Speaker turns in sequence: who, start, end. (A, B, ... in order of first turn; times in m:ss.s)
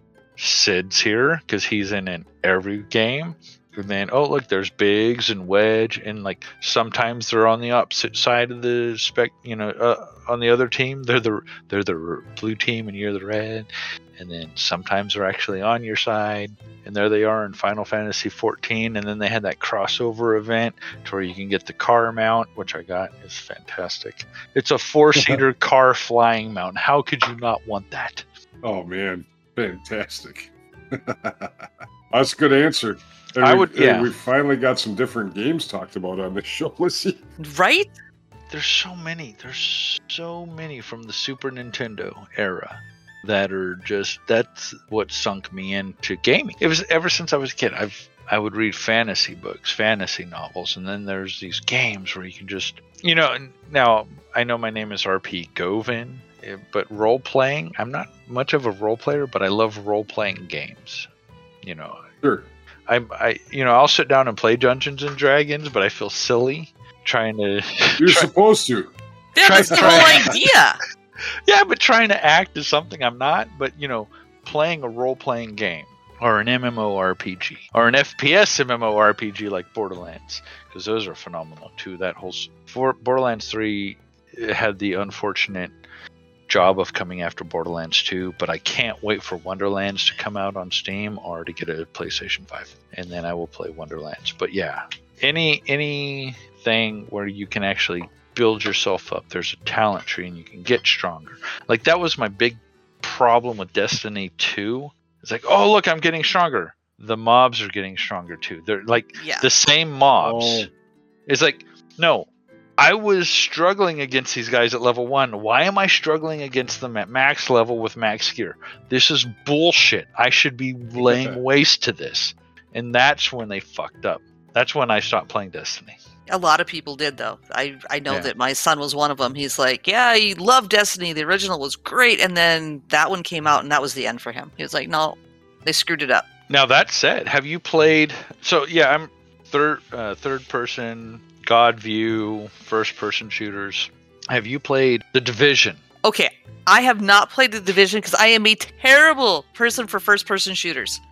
0:00.4-0:28.2 A
0:28.6-0:31.5 B
0:32.1-0:37.2 B
0:33.4-0:34.1 A
0:37.4-0:37.9 C
0:38.5-1:01.1 A
1:01.6-1:02.0 A
1:02.9-1:08.3 A
1:08.0-1:08.9 B
1:09.3-1:10.8 C
1:09.4-1:10.3 A
1:09.5-1:10.3 B
1:11.5-1:25.8 A
1:26.5-1:50.7 A
1:49.2-1:49.5 C
1:50.2-1:50.7 B
1:51.3-1:52.3 A
1:52.8-2:06.0 A
2:01.0-2:01.4 B
2:06.3-2:16.3 C
2:16.5-2:25.8 A
2:26.0-2:31.0 C